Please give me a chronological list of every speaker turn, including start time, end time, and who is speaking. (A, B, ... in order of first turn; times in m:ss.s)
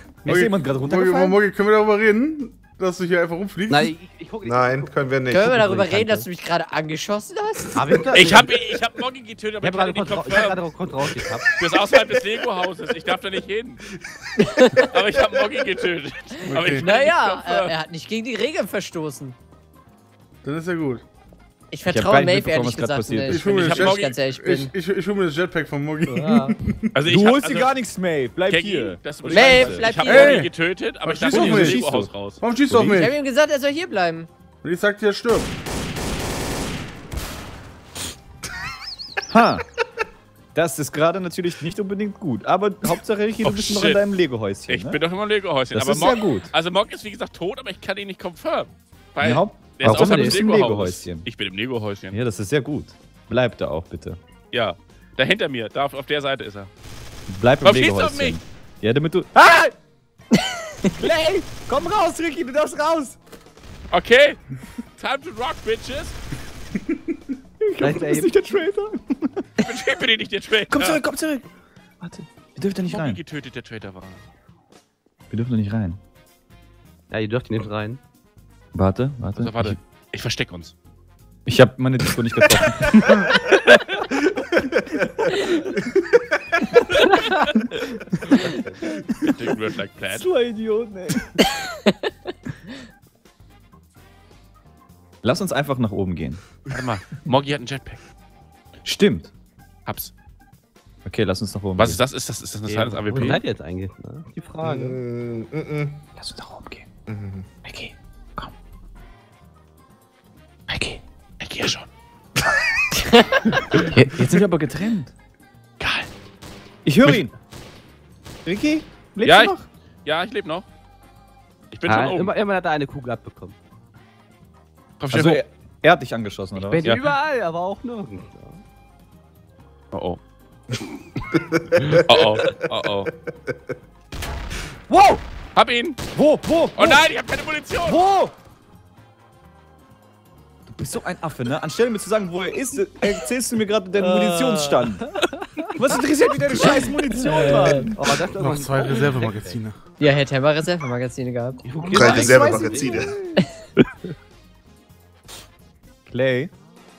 0:00.2-0:01.4 A
0:00.3-0:03.9 B
0:03.7-0:06.3 C
0:04.4-0:05.6 D
0:05.3-0:08.1 E
0:07.8-0:08.5 C
0:08.1-0:10.6 F
0:09.6-0:11.5 C
0:11.1-0:12.2 D
0:11.5-0:13.8 F
0:14.4-0:14.9 E
0:14.8-0:17.7 F
0:15.2-0:15.6 D
0:16.5-0:16.9 B
0:16.8-0:19.4 E
0:20.4-0:21.0 B
0:21.7-0:24.7 E
0:21.9-0:23.4 A
0:23.2-0:26.9 B
0:23.5-0:24.2 F
0:26.1-0:26.5 E
0:26.9-0:27.7 F
0:27.1-0:29.9 A
0:28.5-0:32.4 F
0:29.3-0:30.4 E
0:30.0-0:30.5 B
0:31.0-0:33.2 B
0:31.3-0:32.1 A
0:32.9-0:34.3 E
0:34.6-0:35.5 B
0:39.3-0:39.6 A
0:40.5-0:45.0 A
0:43.4-0:44.0 F
0:44.7-0:52.2 F
0:45.7-0:46.5 A
0:49.2-0:51.3 A
0:49.8-0:50.6 C
0:52.1-0:54.2 A
0:54.5-0:56.7 F
0:57.3-0:59.7 A
0:57.6-0:58.4 F
1:00.4-1:00.9 E
1:01.0-1:03.2 A
1:03.9-1:06.2 F
1:07.6-1:09.5 A
1:07.8-1:08.3 C
1:09.6-1:11.0 F
1:10.7-1:11.5 A
1:12.0-1:13.2 A
1:12.8-1:14.2 F
1:15.3-1:16.0 A
1:17.1-1:18.0 C
1:18.7-1:19.8 A
1:19.4-1:20.7 F
1:21.5-1:23.3 A
1:23.1-1:23.4 D
1:24.1-1:26.6 D
1:28.3-1:28.8 C
1:29.2-1:30.3 F
1:30.1-1:31.4 A
1:31.7-1:32.1 E
1:35.2-1:36.4 A
1:36.7-1:38.0 F
1:38.8-1:39.3 A
1:39.9-1:40.1 F
1:41.0-1:42.0 A
1:41.8-1:43.4 F
1:42.7-1:45.0 C
1:44.6-1:46.0 D
1:46.2-1:46.9 A
1:47.1-1:47.5 D
1:47.6-1:48.5 A
1:50.7-1:51.0 A
1:51.4-1:51.9 F
1:52.9-1:53.5 E
1:53.6-1:53.9 F
1:53.7-1:55.1 A
1:55.8-1:56.1 F
1:56.8-1:57.3 A
1:58.4-1:59.7 A
1:59.2-2:00.6 F
2:01.7-2:02.3 F
2:01.9-2:03.6 C
2:05.0-2:05.4 F
2:05.1-2:07.0 A
2:06.6-2:08.6 C
2:09.9-2:10.2 F
2:10.7-2:11.0 F
2:11.3-2:13.6 D
2:11.9-2:13.1 F
2:14.9-2:15.2 A
2:15.6-2:16.0 F
2:16.1-2:17.1 A
2:16.8-2:18.0 F
2:17.8-2:18.3 A
2:20.7-2:25.1 A
2:24.0-2:25.8 C
2:25.8-2:28.2 A
2:26.6-2:27.9 E
2:27.4-2:29.6 C
2:28.3-2:29.8 B
2:30.0-2:31.7 E
2:31.7-2:33.4 C
2:31.9-2:33.1 D
2:36.1-2:36.5 A